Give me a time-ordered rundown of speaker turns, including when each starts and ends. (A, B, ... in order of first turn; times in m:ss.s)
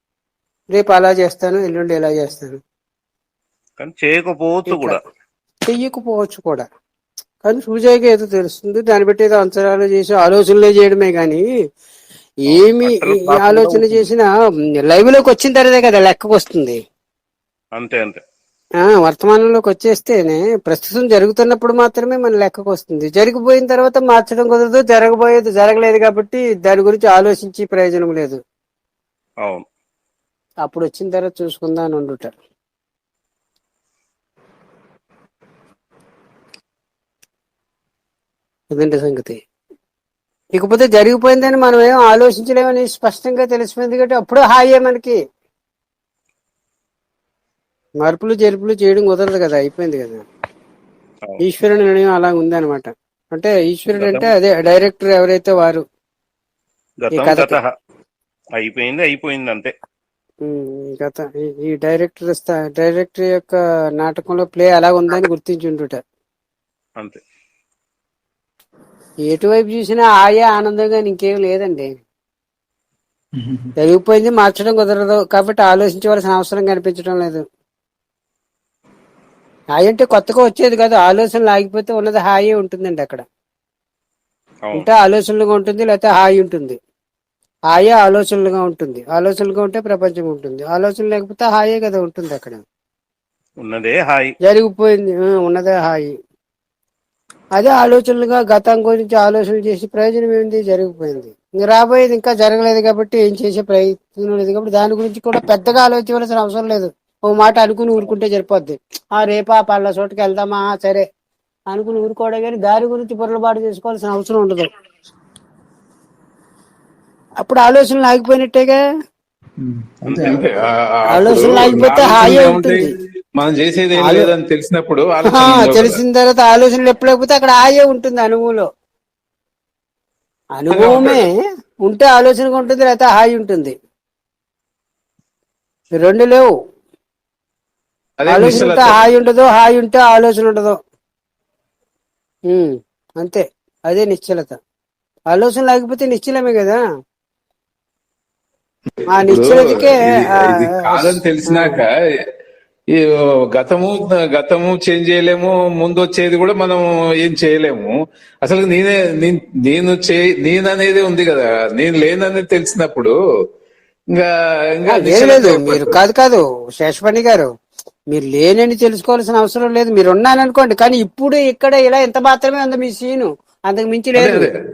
0:00.7-0:02.6 A
0:03.8-0:05.0 B
0:04.7-0:05.0 A
0:05.7-0:06.6 A
0:07.4-0:11.4 A
0:12.4-0:14.3 A
0:12.5-0:14.1 B
0:14.8-0:16.8 A
0:17.8-0:18.2 B
0:18.8-0:28.4 A
0:30.6-0:32.4 A
0:38.7-0:39.4 A
0:40.5-0:45.2 A
0:48.0-0:50.2 A
0:51.4-0:55.8 A
0:54.0-0:54.3 B
0:57.0-0:57.7 B
0:57.1-0:57.6 A
0:58.6-0:59.7 B
1:00.4-1:06.0 A
1:09.3-1:11.9 A
1:13.8-1:17.4 A
1:19.8-1:23.2 A
1:24.8-1:26.8 A
1:27.7-1:32.6 A
1:33.6-1:34.3 B
1:34.5-1:36.1 A
1:37.6-1:51.0 A
1:51.7-1:54.7 A
1:57.4-1:58.8 A
1:59.6-2:06.0 C
2:00.1-2:00.4 B
2:01.1-2:02.9 A
2:04.0-2:04.3 A
2:05.3-2:08.7 A
2:10.6-2:11.3 A
2:10.7-2:11.2 C
2:11.8-2:13.7 A
2:16.0-2:16.5 A
2:18.2-2:19.1 C
2:18.3-2:20.8 A
2:22.5-2:24.6 A
2:25.3-2:26.8 A
2:29.1-2:31.8 A
2:29.3-2:31.9 C
2:32.9-2:43.1 C
2:44.1-2:46.0 C
2:44.9-2:47.5 A
2:48.1-2:54.5 A
2:54.2-2:54.5 C